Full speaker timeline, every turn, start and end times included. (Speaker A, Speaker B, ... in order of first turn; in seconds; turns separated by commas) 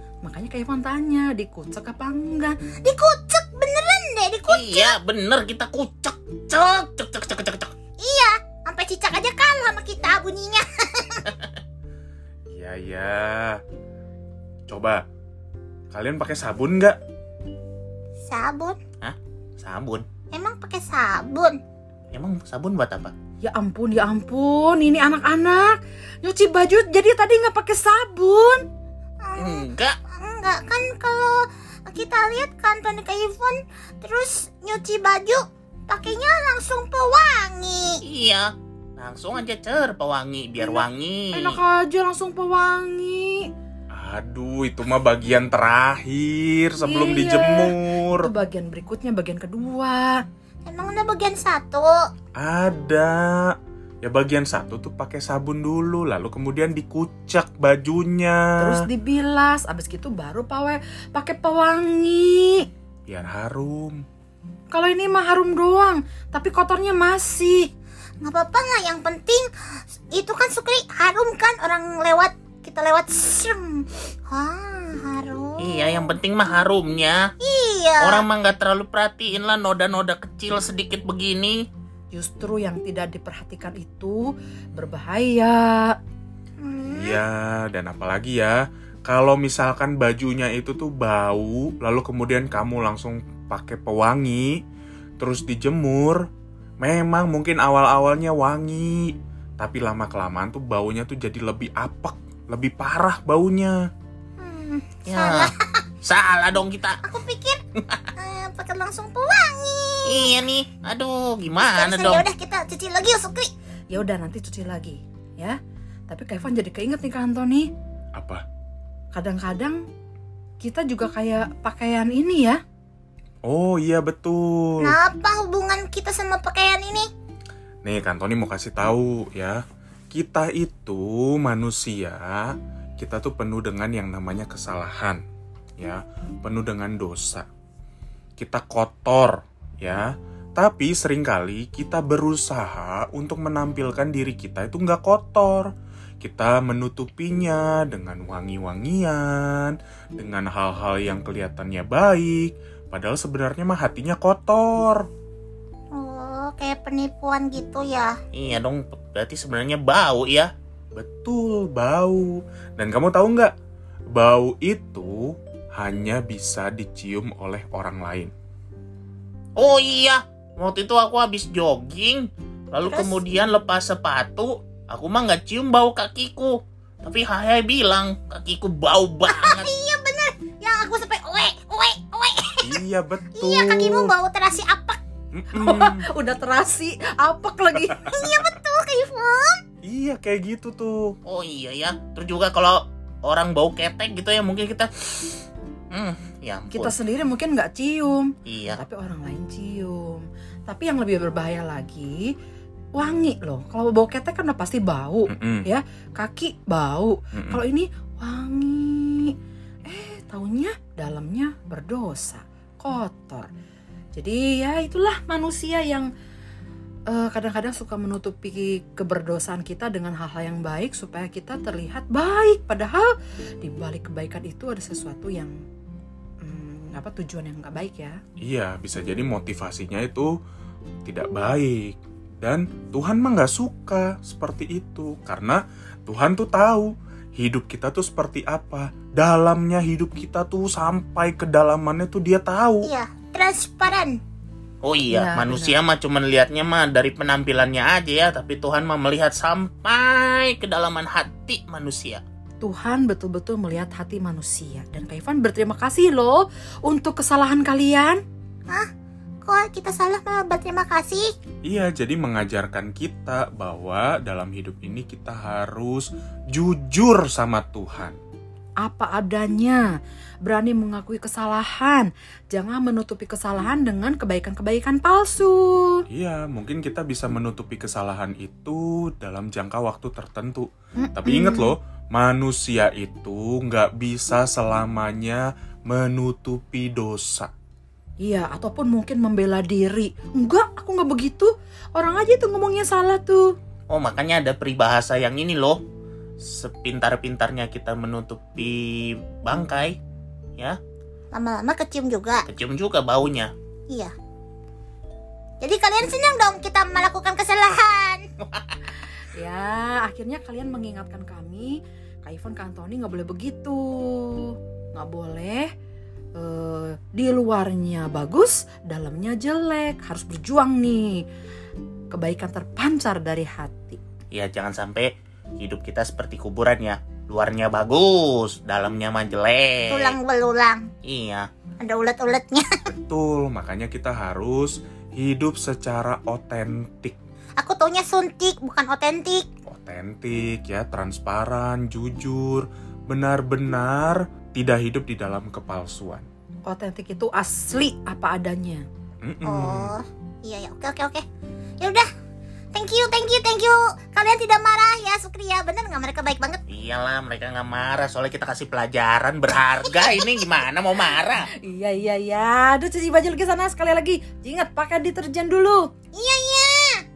Speaker A: 0.2-2.5, Speaker B: 2.8-5.0, Speaker C: 4.5-7.7, Speaker B: 8.0-11.4, Speaker D: 12.5-13.6, Speaker D: 14.7-15.0, Speaker D: 15.9-17.0, Speaker B: 18.3-18.8, Speaker C: 19.0-20.0, Speaker B: 20.3-21.6, Speaker C: 22.1-23.1, Speaker A: 23.4-28.6, Speaker B: 29.2-38.0, Speaker C: 29.4-29.9, Speaker C: 38.0-41.6, Speaker A: 41.3-43.5, Speaker D: 43.9-48.3, Speaker A: 46.8-50.2, Speaker B: 50.6-52.0, Speaker D: 52.4-58.8, Speaker A: 58.6-62.7, Speaker D: 63.1-64.0, Speaker A: 64.7-67.7, Speaker B: 68.2-69.5, Speaker B: 70.1-76.1, Speaker C: 75.6-77.3, Speaker B: 77.4-78.2, Speaker C: 78.0-81.7, Speaker A: 82.1-86.0, Speaker B: 86.6-87.2, Speaker D: 86.9-94.6, Speaker D: 95.2-96.3, Speaker D: 96.8-103.8, Speaker B: 104.4-105.8, Speaker C: 105.0-105.5, Speaker C: 106.0-107.0, Speaker B: 107.0-107.6, Speaker B: 108.2-110.3, Speaker C: 110.1-112.2, Speaker B: 111.6-113.5, Speaker A: 113.9-115.5, Speaker A: 116.1-117.7, Speaker D: 118.1-118.4, Speaker A: 119.1-119.8, Speaker A: 120.6-122.6, Speaker D: 123.4-124.9, Speaker B: 124.8-127.1, Speaker D: 127.8-135.2, Speaker D: 135.8-137.4, Speaker D: 138.4-155.0, Speaker B: 155.9-158.2, Speaker C: 158.3-160.5, Speaker D: 160.9-163.5, Speaker D: 164.1-165.2, Speaker D: 165.8-168.3, Speaker C: 169.6-179.7, Speaker B: 172.8-173.2, Speaker B: 179.3-182.8, Speaker D: 182.6-184.1, Speaker B: 183.4-185.0, Speaker D: 185.3-186.1, Speaker A: 185.5-188.1, Speaker D: 187.8-188.2, Speaker B: 188.0-189.6, Speaker D: 189.8-191.2, Speaker C: 191.2-196.9, Speaker A: 196.7-202.3, Speaker C: 198.4-198.8, Speaker A: 202.9-209.3, Speaker D: 205.3-205.7, Speaker D: 207.3-207.6, Speaker A: 209.8-213.5, Speaker A: 214.1-216.1, Speaker A: 217.1-225.5, Speaker A: 226.4-228.2, Speaker D: 228.4-230.3, Speaker D: 231.0-242.9, Speaker B: 242.8-244.2, Speaker C: 244.8-252.2, Speaker A: 245.1-245.7, Speaker A: 252.6-258.2, Speaker B: 259.4-261.3, Speaker D: 261.6-268.1, Speaker A: 268.8-269.8, Speaker A: 270.4-276.0, Speaker D: 276.1-287.5, Speaker A: 281.0-281.7, Speaker A: 288.2-293.5, Speaker C: 293.9-295.8, Speaker C: 296.4-300.0, Speaker B: 301.3-302.4, Speaker C: 302.5-303.5, Speaker B: 303.9-304.1, Speaker B: 305.6-308.3, Speaker C: 308.5-308.8, Speaker A: 309.3-315.7, Speaker A: 316.4-321.2, Speaker A: 322.1-324.0, Speaker C: 324.3-330.2, Speaker B: 329.9-330.9, Speaker C: 331.0-331.4, Speaker B: 331.8-332.9, Speaker D: 333.1-337.1, Speaker B: 337.6-339.4, Speaker D: 339.7-346.2, Speaker A: 346.6-348.8, Speaker D: 349.2-349.9, Speaker B: 349.4-351.2, Speaker B: 351.8-352.1, Speaker B: 352.7-356.6, Speaker C: 356.7-361.5, Speaker B: 359.9-360.5, Speaker A: 361.5-365.9, Speaker B: 366.1-367.0